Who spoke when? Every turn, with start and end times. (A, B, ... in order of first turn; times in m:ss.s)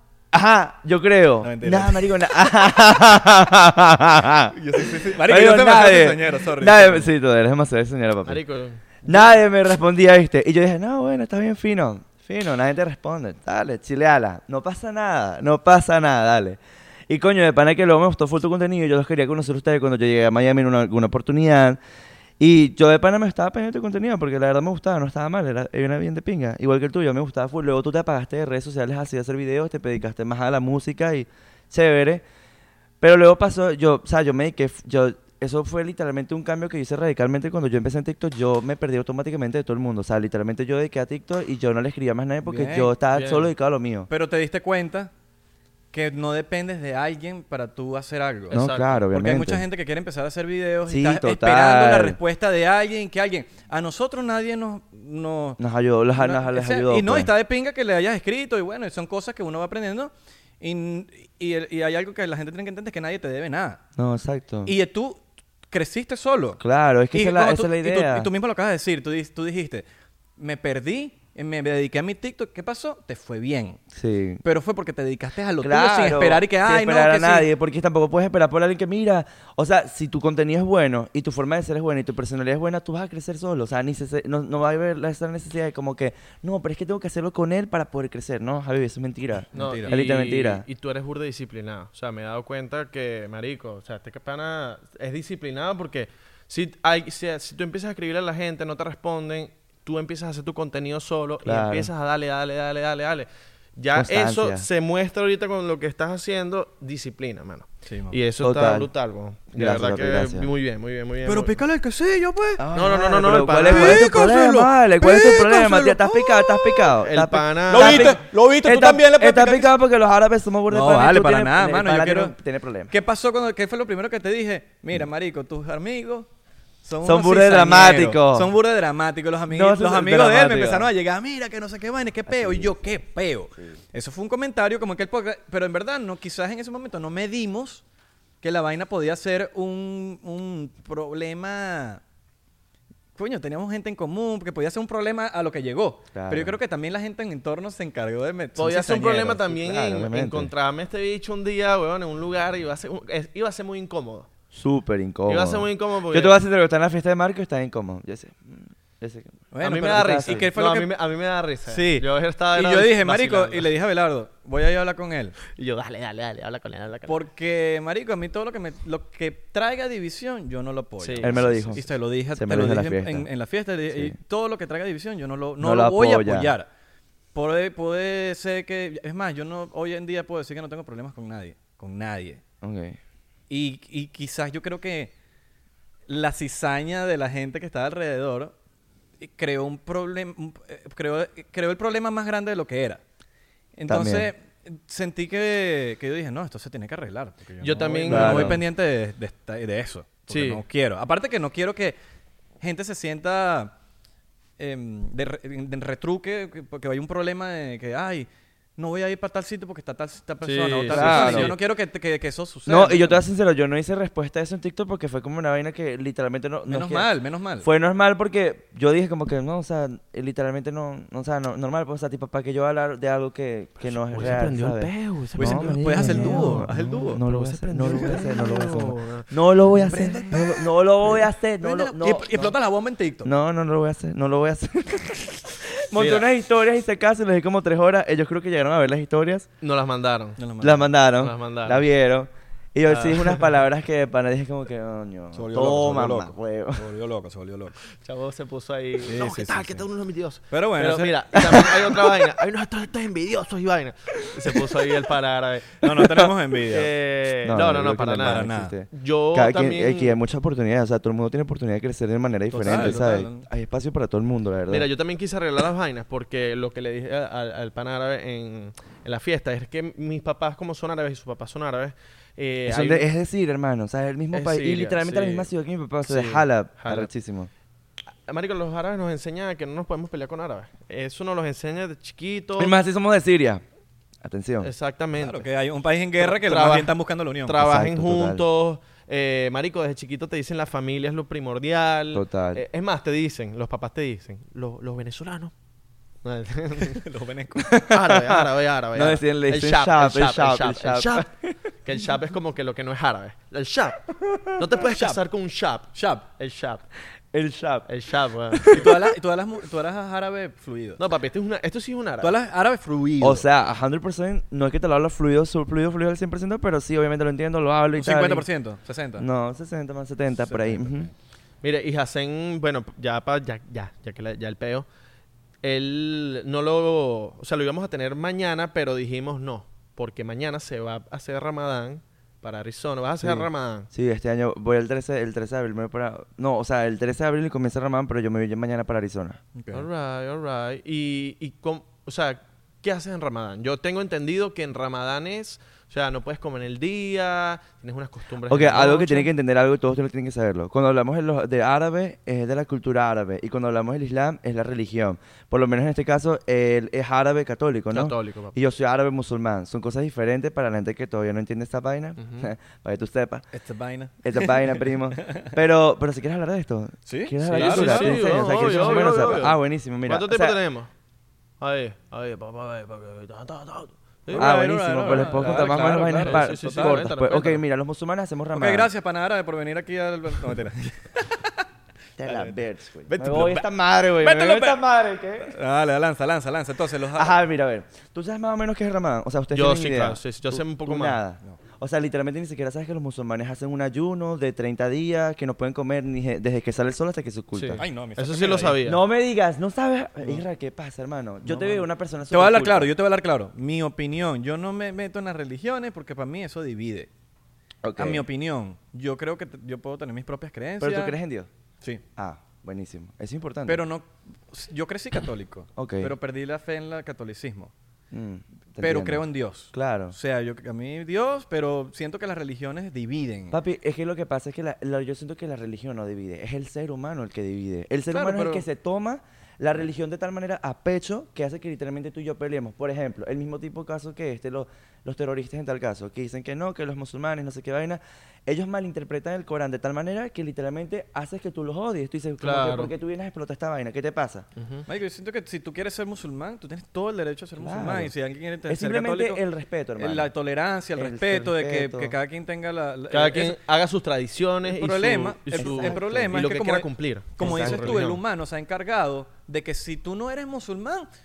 0:00.3-0:08.4 A
0:01.4-0:02.3 B
0:04.5-0:07.1 B
0:08.2-0:09.0 C
0:09.0-0:21.8 A
0:22.4-0:32.2 A
0:33.0-0:44.1 A
0:42.4-0:42.9 B
0:43.1-0:43.5 C
0:44.1-0:45.1 B
0:45.9-0:55.6 B
0:48.5-0:49.0 C
0:48.5-0:49.6 A
0:50.9-0:52.2 A
0:55.6-0:57.3 A
0:56.2-1:03.8 B
1:04.0-1:04.7 A
1:04.6-1:06.6 B
1:06.6-1:08.3 A
1:07.1-1:09.8 B
1:10.4-1:13.8 B
1:13.9-1:14.4 A
1:14.4-1:17.5 B
1:15.6-1:30.6 A
1:29.5-1:30.0 B
1:29.5-1:51.6 C
1:41.4-1:41.9 A
1:43.9-1:44.7 A
1:47.8-1:48.2 B
1:48.4-1:48.9 A
1:49.5-1:50.5 A
1:51.2-1:52.6 B
1:52.6-2:02.9 A
1:52.7-1:54.1 C
1:53.6-1:56.9 B
1:57.0-1:58.2 C
1:57.7-1:59.8 B
2:00.7-2:02.3 B
2:02.9-2:06.3 B
2:06.8-2:17.8 B
2:07.0-2:08.5 A
2:09.5-2:10.9 A
2:12.3-2:12.7 A
2:18.4-2:22.0 B
2:23.2-2:29.4 B
2:26.1-2:26.6 A
2:28.6-2:34.3 C
2:29.5-2:30.5 A
2:34.5-2:40.5 A
2:35.3-2:36.4 C
2:39.5-2:40.9 B
2:39.6-2:43.7 C
2:41.7-2:45.3 B
2:45.5-2:47.2 C
2:47.1-2:56.7 B
2:51.0-2:51.8 C
2:51.2-2:53.3 A
2:53.9-2:54.2 A
2:55.6-2:56.5 A
2:57.3-3:02.4 B
3:02.6-3:03.0 A
3:03.5-3:05.1 B
3:06.1-3:08.5 B
3:09.2-3:13.0 B
3:13.8-3:22.0 B
3:13.9-3:14.3 A
3:17.6-3:18.6 C
3:18.1-3:18.6 A
3:20.3-3:20.6 C
3:22.6-3:23.7 B
3:24.6-3:33.2 B
3:30.4-3:31.5 C
3:30.9-3:31.5 A
3:32.6-3:37.1 A
3:36.7-3:37.7 B
3:37.6-3:52.5 A
3:43.9-3:49.3 C
3:45.3-3:47.2 B
3:47.8-3:48.2 B
3:49.8-3:50.2 C
3:49.8-3:53.3 B
3:53.2-3:59.4 A
3:55.9-3:56.3 C
3:59.6-4:00.4 C
4:00.4-4:00.9 B
4:00.6-4:06.8 A
4:01.2-4:01.8 C
4:02.9-4:03.5 C
4:05.3-4:07.8 B
4:07.9-4:16.0 C
4:09.0-4:09.8 B
4:10.5-4:11.6 B
4:11.4-4:11.9 A
4:14.2-4:14.8 A
4:15.8-4:16.9 B
4:15.9-4:16.3 A
4:16.6-4:20.2 C
4:17.4-4:24.9 A
4:18.2-4:18.7 B
4:22.5-4:23.5 B
4:22.6-4:23.0 C
4:24.7-4:33.1 C
4:32.6-4:37.5 A
4:34.3-4:35.5 C
4:36.0-4:37.1 C
4:38.3-4:42.7 C
4:42.6-4:43.6 A
4:44.2-4:44.7 A
4:44.6-4:45.4 C
4:45.2-4:47.6 B
4:46.2-4:55.5 C
4:47.6-4:48.4 A
4:52.1-4:52.6 A
4:56.2-4:57.0 C
4:56.8-4:57.7 B
4:57.6-5:01.6 A
4:57.9-5:01.3 C
5:01.8-5:06.8 C
5:04.2-5:04.6 A
5:04.9-5:05.2 B
5:05.9-5:06.2 B
5:07.3-5:07.9 A
5:07.9-5:08.9 C
5:08.5-5:09.0 A
5:08.7-5:11.0 B
5:11.0-5:12.3 C
5:12.2-5:13.5 B
5:13.2-5:18.4 A
5:18.0-5:19.2 B
5:19.2-5:21.1 A
5:20.4-5:21.1 B
5:21.6-5:24.8 C
5:25.6-5:33.9 C
5:33.2-5:39.4 A
5:39.6-5:39.9 B
5:39.7-5:49.3 C
5:48.5-6:03.4 A
5:57.9-5:58.5 C
6:02.2-6:02.5 C
6:03.5-6:05.5 B
6:04.2-6:10.6 A
6:07.1-6:09.5 B
6:07.5-6:10.9 C
6:11.6-6:17.6 C
6:14.3-6:17.1 B
6:14.3-6:18.9 A
6:18.5-6:21.6 B
6:22.2-6:25.6 A
6:22.2-6:24.8 B
6:25.4-6:27.4 B
6:27.1-6:37.8 A
6:29.5-6:31.2 C
6:37.5-6:39.0 C
6:37.8-6:38.8 B
6:38.8-6:42.9 A
6:41.4-6:47.1 B
6:47.8-6:48.2 A
6:48.0-6:51.2 B
6:50.8-6:51.5 A
6:52.2-6:53.8 A
6:53.6-6:57.7 B
6:55.8-6:56.1 A
6:58.1-7:00.2 A
6:58.8-7:03.6 B
7:03.5-7:24.5 A
7:08.1-7:08.6 B
7:22.4-7:22.9 C
7:24.6-7:24.8 C
7:24.9-7:29.4 B
7:27.6-7:28.1 A
7:28.6-7:30.3 A
7:30.0-7:33.6 B
7:31.0-7:32.2 A
7:33.1-7:38.2 C
7:34.6-7:41.1 B
7:35.6-7:36.3 A
7:37.4-7:38.0 A